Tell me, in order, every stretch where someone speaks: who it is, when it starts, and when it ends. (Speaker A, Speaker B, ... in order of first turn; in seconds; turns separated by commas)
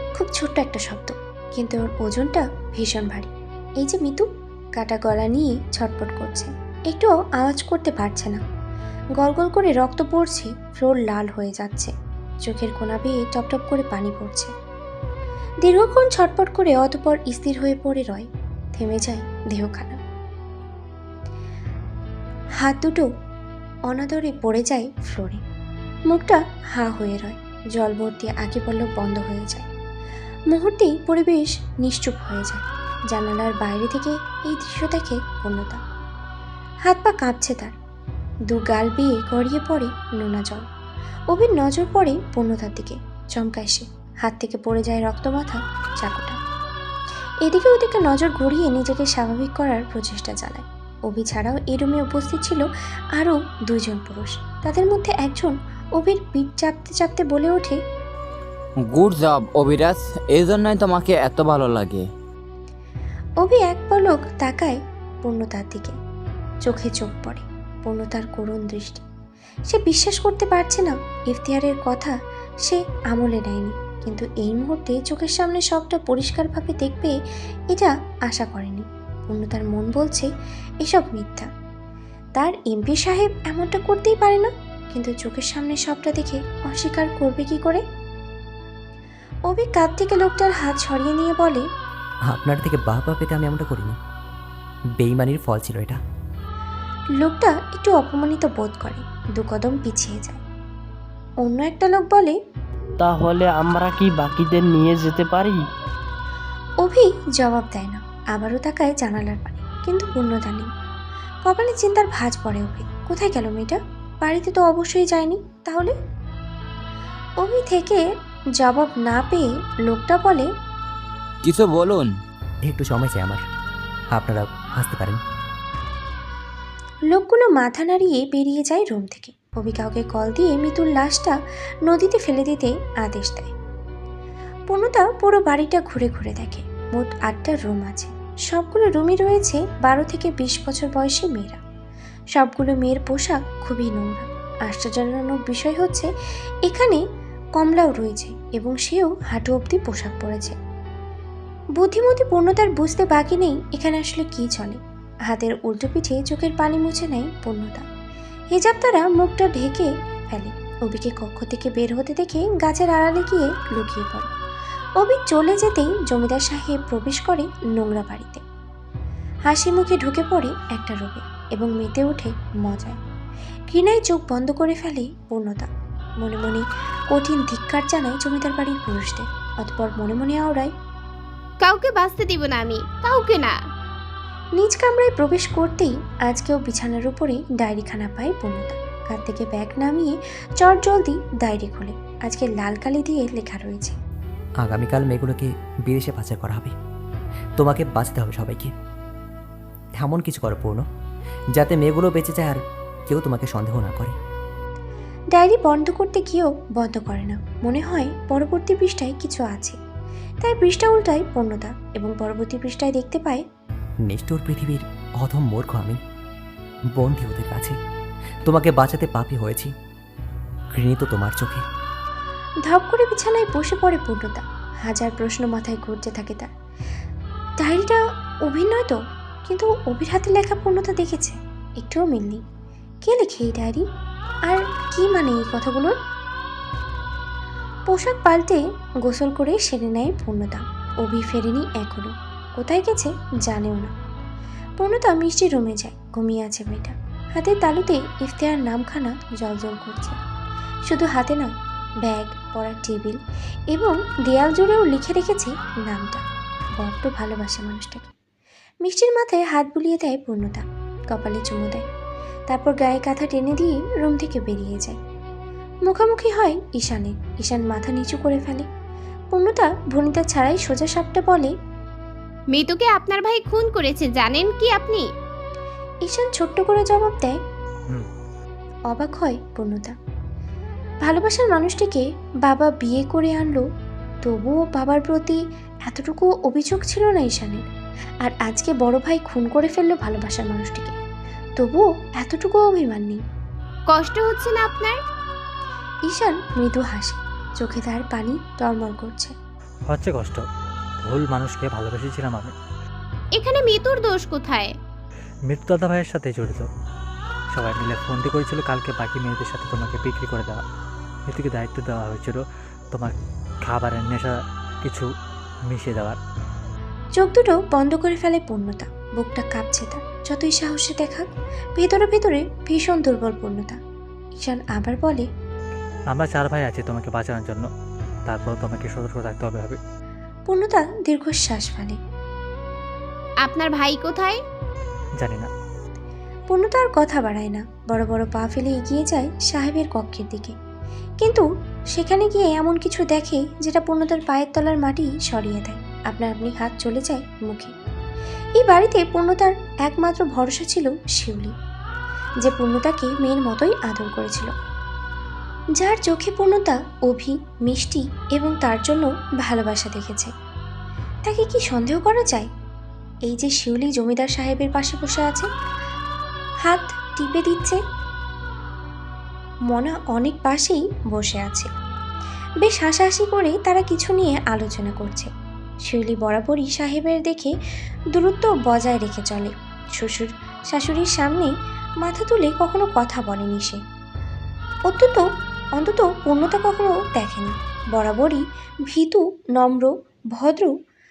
Speaker A: 0.2-8.4, Speaker A: 9.2-11.9, Speaker A: 12.4-14.5, Speaker A: 15.6-20.0, Speaker A: 22.6-23.1, Speaker A: 23.9-25.4, Speaker A: 26.1-29.7, Speaker A: 30.5-35.8, Speaker A: 36.9-37.7, Speaker A: 38.5-40.6, Speaker A: 41.3-46.4, Speaker A: 47.4-57.8, Speaker B: 58.8-62.1, Speaker A: 63.4-66.0, Speaker A: 66.6-69.0, Speaker A: 69.7-77.2, Speaker A: 77.7-80.3, Speaker A: 80.8-81.5, Speaker A: 82.4-87.8, Speaker A: 89.5-91.7, Speaker C: 92.3-94.0, Speaker C: 95.0-96.0, Speaker A: 97.2-100.4, Speaker A: 101.4-102.4, Speaker D: 103.0-105.7, Speaker A: 106.8-110.7, Speaker A: 111.5-115.9, Speaker A: 117.4-118.0, Speaker A: 118.6-120.5, Speaker B: 121.4-122.1, Speaker C: 122.6-123.5, Speaker C: 124.1-125.2, Speaker A: 127.1-131.3, Speaker A: 131.9-133.5, Speaker A: 134.7-141.6, Speaker A: 142.3-146.1, Speaker A: 146.7-147.0, Speaker A: 147.6-150.6, Speaker A: 151.8-157.8, Speaker A: 158.5-164.3, Speaker A: 165.0-168.4, Speaker A: 169.5-173.0, Speaker A: 173.7-175.7, Speaker A: 176.2-180.7, Speaker E: 181.6-183.6, Speaker A: 184.6-194.0, Speaker C: 194.6-196.8, Speaker C: 197.6-198.7, Speaker C: 200.0-200.9, Speaker C: 201.5-204.2, Speaker A: 205.3-209.8, Speaker A: 210.4-213.4, Speaker C: 214.0-216.0, Speaker C: 216.9-217.8, Speaker C: 218.4-219.7, Speaker C: 220.7-221.7, Speaker A: 222.7-226.5, Speaker A: 227.6-232.4, Speaker A: 233.0-233.8, Speaker A: 234.5-235.9, Speaker A: 237.9-243.9, Speaker A: 244.8-250.2, Speaker A: 250.9-253.2, Speaker A: 253.7-256.2, Speaker A: 256.8-258.1, Speaker A: 258.8-261.8, Speaker A: 262.5-265.0, Speaker A: 265.9-268.7, Speaker A: 269.3-271.5, Speaker E: 272.5-275.1, Speaker A: 276.1-277.4, Speaker A: 278.9-279.9, Speaker A: 281.0-283.6, Speaker A: 284.2-287.6, Speaker A: 288.2-291.0, Speaker A: 291.6-293.2, Speaker E: 293.9-295.0, Speaker A: 296.1-299.3, Speaker F: 299.9-300.4, Speaker F: 301.0-302.5, Speaker E: 303.4-304.7, Speaker F: 305.5-306.7, Speaker F: 307.5-310.6, Speaker F: 311.3-313.1, Speaker F: 313.6-315.1, Speaker F: 315.7-316.2, Speaker A: 317.2-323.8, Speaker A: 324.4-325.3, Speaker F: 326.1-327.7, Speaker F: 328.3-329.8, Speaker A: 330.5-332.0, Speaker E: 333.4-334.4, Speaker F: 335.2-335.5, Speaker A: 336.5-340.6, Speaker A: 341.2-347.7, Speaker A: 348.6-351.6, Speaker A: 352.4-354.5, Speaker A: 355.8-360.3, Speaker A: 361.3-362.5, Speaker A: 363.3-365.5, Speaker A: 366.7-367.8, Speaker A: 369.7-371.7, Speaker A: 372.6-375.3, Speaker A: 375.9-377.5, Speaker A: 378.1-381.5, Speaker A: 382.0-383.8, Speaker A: 384.9-385.3, Speaker A: 385.8-390.7